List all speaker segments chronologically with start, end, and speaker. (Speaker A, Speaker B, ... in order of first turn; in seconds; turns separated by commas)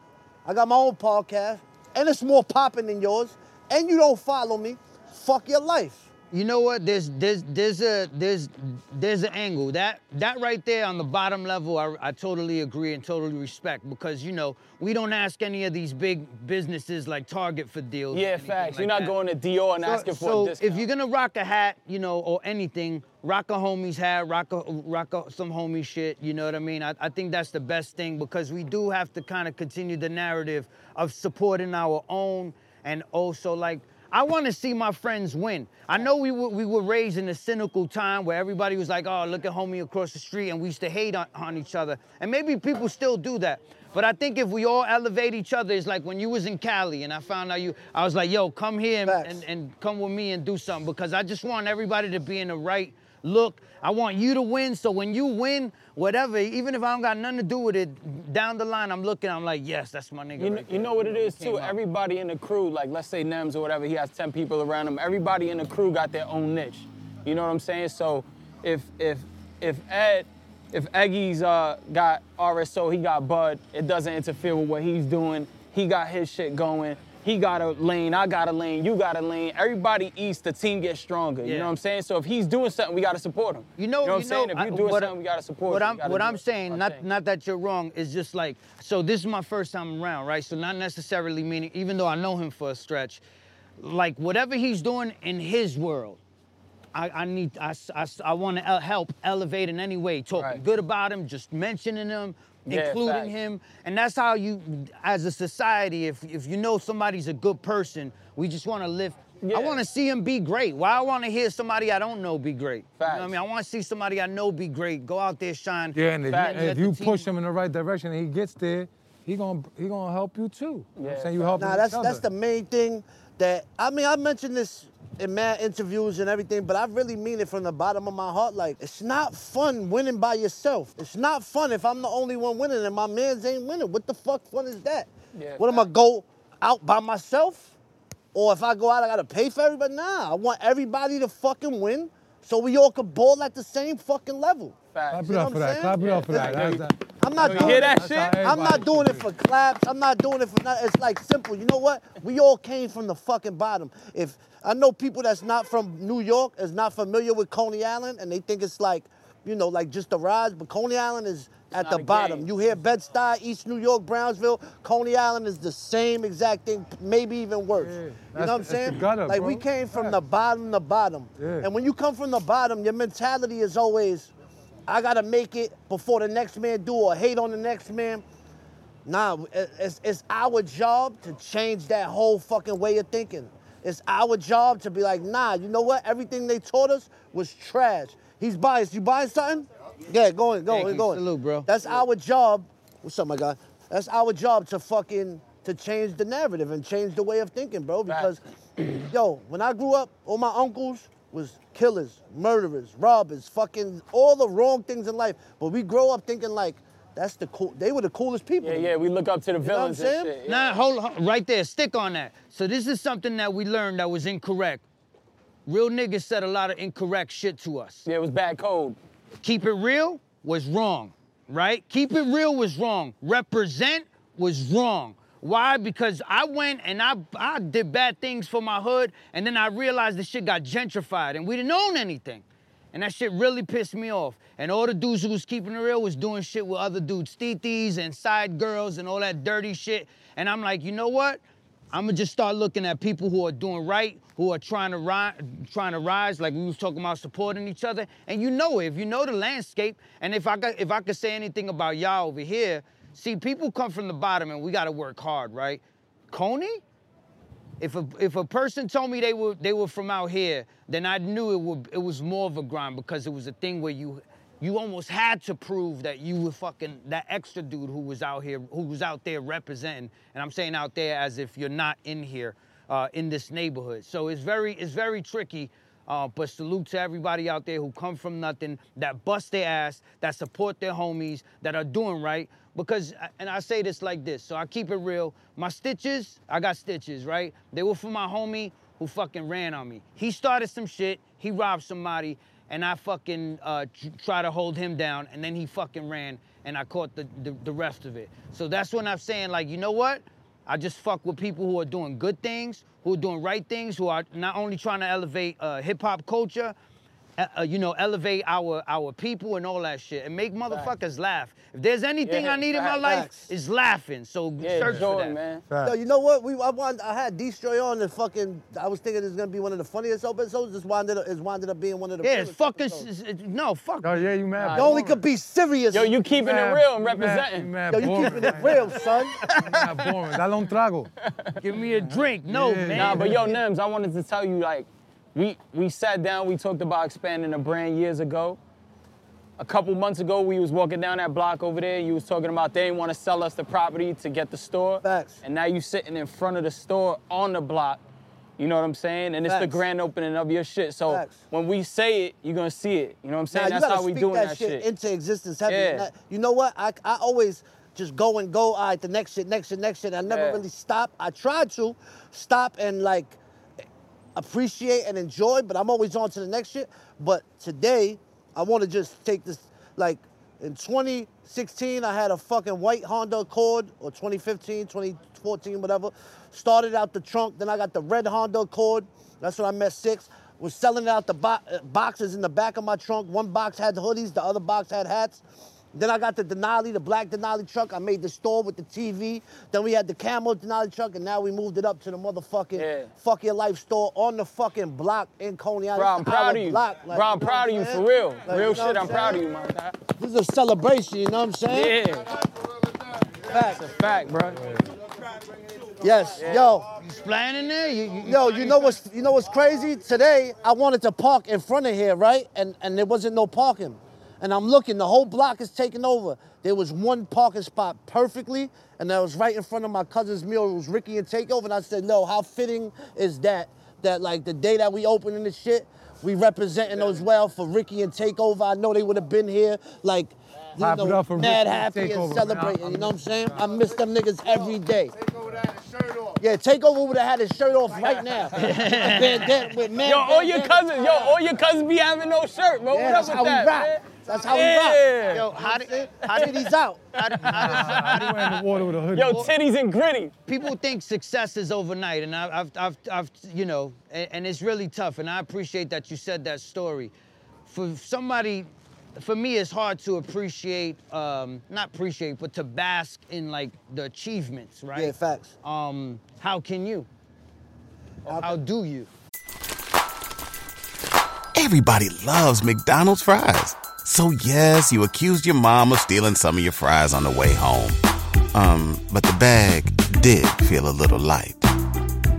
Speaker A: 0.5-6.1, Speaker B: 6.3-19.1, Speaker C: 18.1-20.9, Speaker B: 19.8-61.8, Speaker A: 49.1-49.4, Speaker C: 60.4-87.0, Speaker B: 81.4-81.7, Speaker B: 83.8-85.1, Speaker B: 85.7-93.2, Speaker B: 93.8-96.2, Speaker B: 96.9-117.3, Speaker C: 102.7-103.3, Speaker C: 109.4-109.8, Speaker C: 113.0-113.4, Speaker D: 115.9-122.2, Speaker C: 116.3-116.7, Speaker C: 121.0-121.6, Speaker A: 121.6-137.7, Speaker C: 135.3-135.9, Speaker A: 138.3-174.3, Speaker C: 144.9-145.3, Speaker D: 145.1-149.3, Speaker C: 146.0-148.6, Speaker C: 161.7-162.5, Speaker D: 167.8-170.2, Speaker D: 171.4-171.7, Speaker A: 174.9-178.2, Speaker A: 179.1-208.9, Speaker B: 190.7-191.7, Speaker C: 198.1-198.9, Speaker C: 208.6-210.8, Speaker A: 209.6-210.3, Speaker B: 210.4-214.8, Speaker B: 215.7-218.1, Speaker C: 218.1-219.0, Speaker B: 219.4-241.4, Speaker B: 241.9-256.8, Speaker B: 257.8-306.8, Speaker B: 307.4-315.4, Speaker C: 312.2-313.0, Speaker A: 313.0-313.5, Speaker C: 314.6-315.6, Speaker D: 314.8-315.1, Speaker D: 315.7-316.0, Speaker A: 315.8-323.1, Speaker B: 322.2-324.3, Speaker D: 324.0-325.2, Speaker C: 324.6-325.0, Speaker A: 324.7-326.1, Speaker C: 325.9-327.8, Speaker D: 326.3-331.1, Speaker A: 327.9-329.4, Speaker B: 329.4-329.8, Speaker C: 331.2-331.6, Speaker B: 331.6-333.4, Speaker D: 331.9-333.5, Speaker C: 332.9-338.6, Speaker C: 339.6-348.0, Speaker A: 345.0-345.4, Speaker C: 348.6-354.9, Speaker A: 349.5-349.9, Speaker A: 351.1-351.4, Speaker A: 353.5-363.4, Speaker C: 355.7-356.1, Speaker C: 360.3-360.6, Speaker A: 364.4-399.4, Speaker C: 392.7-393.1, Speaker C: 395.9-399.9, Speaker A: 400.2-402.0, Speaker C: 401.7-402.3, Speaker A: 403.5-403.8, Speaker C: 403.6-404.8, Speaker A: 406.0-406.9, Speaker C: 406.4-406.8, Speaker B: 407.0-409.0, Speaker A: 408.2-435.1, Speaker D: 430.8-433.7, Speaker A: 436.4-441.4, Speaker B: 438.6-439.5, Speaker C: 439.1-445.5, Speaker A: 442.9-445.1, Speaker B: 445.3-448.6, Speaker A: 445.6-447.0, Speaker C: 446.3-446.7, Speaker C: 447.2-448.4, Speaker D: 447.4-449.5, Speaker C: 449.1-450.3, Speaker B: 450.5-457.1, Speaker B: 457.7-467.1, Speaker A: 464.9-465.5, Speaker A: 468.3-468.6, Speaker B: 468.3-469.1, Speaker E: 471.6-478.0, Speaker E: 478.5-481.6